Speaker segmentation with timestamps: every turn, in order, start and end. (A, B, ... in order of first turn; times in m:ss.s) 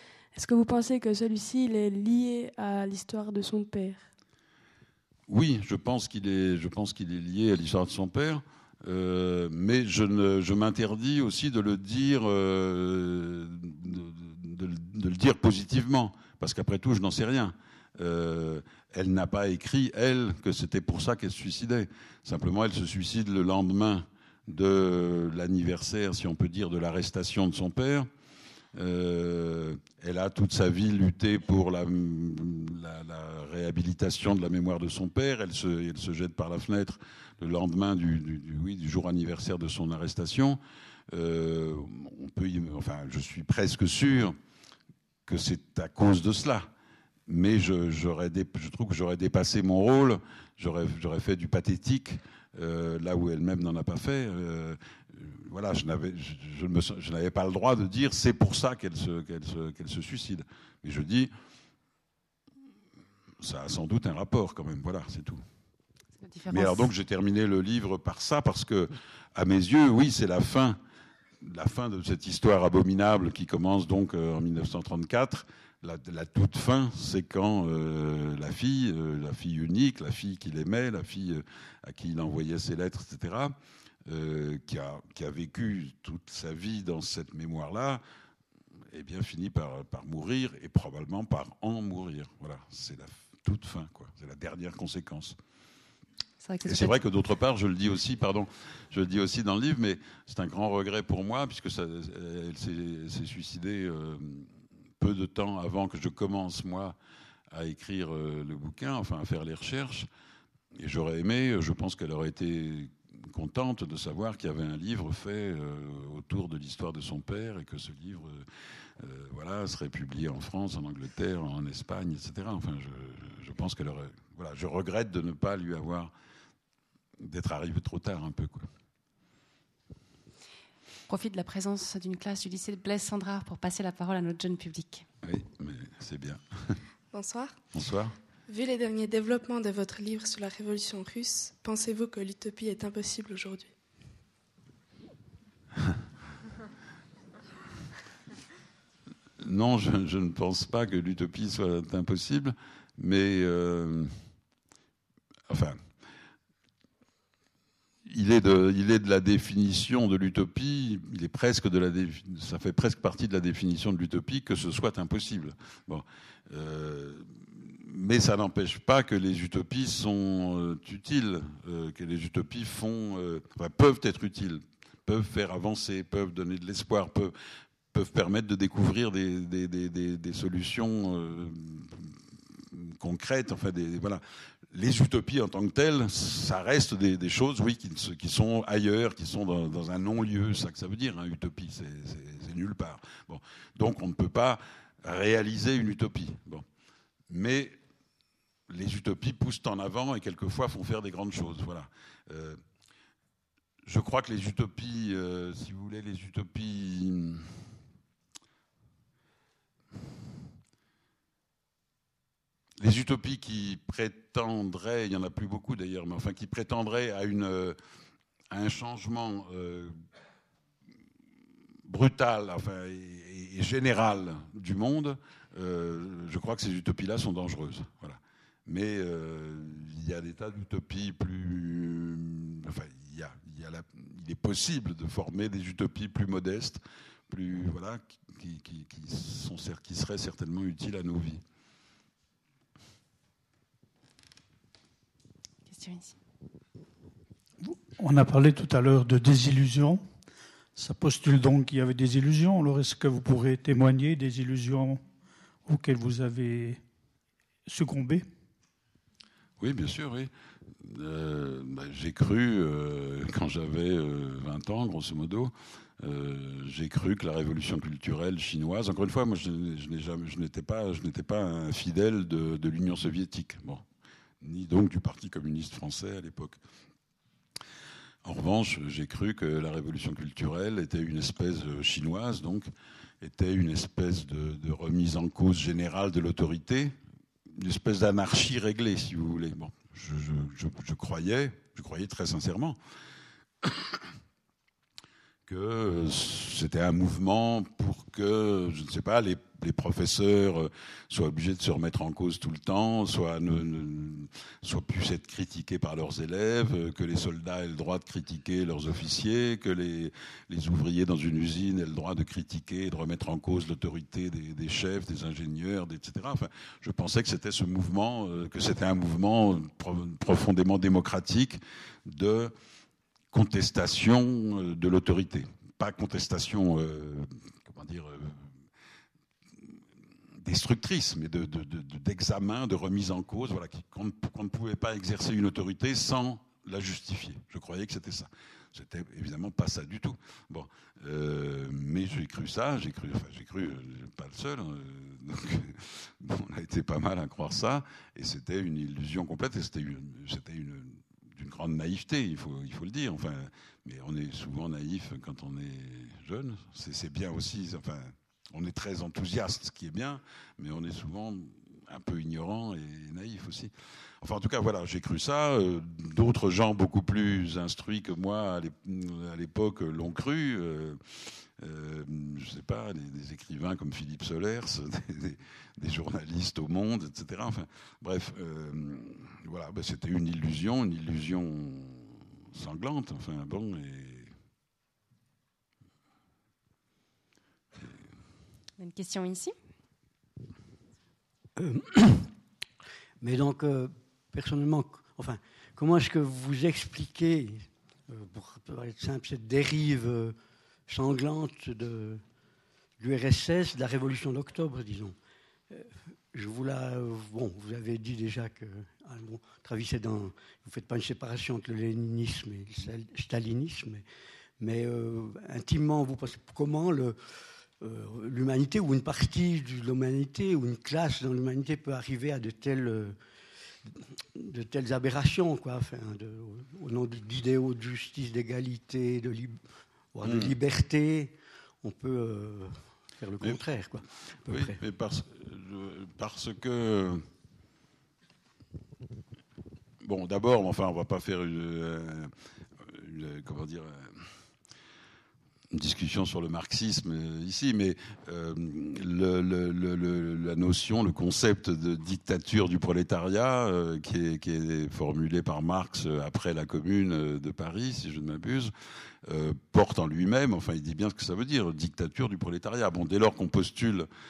0:00.3-0:04.1 A
0:05.3-0:28.1 B
0:28.7-0:40.6 B
0:41.1-0:44.4 B
0:45.3-0:46.7 B
0:47.3-1:01.3 B
1:03.4-1:05.4 B
1:06.2-1:06.9 C
1:06.5-1:10.8 B
1:11.4-1:23.5 B
1:24.1-1:28.0 B
1:28.9-1:35.4 B
1:36.4-1:37.0 C
1:36.6-1:44.5 B
1:45.0-1:47.0 B
1:47.5-1:50.1 B
1:50.8-1:58.5 B
1:59.0-2:06.1 B
2:07.2-2:08.7 B
2:11.1-2:15.0 C
2:15.2-2:16.8 B
2:17.1-2:17.5 D
2:17.7-2:18.2 B
2:18.5-2:23.7 D
2:29.4-2:34.1 B
2:35.5-2:35.8 B
2:38.1-2:57.3 B
2:57.9-3:02.2 B
3:02.7-3:04.2 B
3:04.7-3:16.6 B
3:17.3-3:17.8 B
3:18.7-3:22.6 B
3:23.8-3:27.6 B
3:32.8-3:37.8 B
3:38.5-3:39.9 B
3:41.8-4:01.4 B
4:05.7-4:06.1 C
4:07.6-4:10.0 E
4:10.8-4:15.0 E
4:15.6-4:16.8 E
4:17.6-4:18.2 E
4:19.6-4:20.3 B
4:20.8-4:33.8 B
4:34.4-4:36.6 B
4:38.2-4:42.7 B
4:43.2-4:46.9 B
4:47.5-4:52.8 B
4:53.6-4:54.0 B
4:55.5-5:22.5 B
5:23.3-5:28.4 B
5:30.4-6:03.7 B
6:04.2-6:11.0 B
6:11.6-6:24.3 B
6:28.8-6:29.5 C
6:31.6-6:32.3 F
6:33.2-6:42.2 F
6:43.0-6:45.2 F
6:45.7-6:54.0 F
6:54.6-6:57.3 F
6:57.8-7:03.2 F
7:03.8-7:14.8 F
7:10.2-7:10.5 B
7:14.4-7:17.2 B
7:20.0-7:22.3 B
7:22.8-7:24.3 B
7:25.7-7:38.7 B
7:39.2-7:44.1 B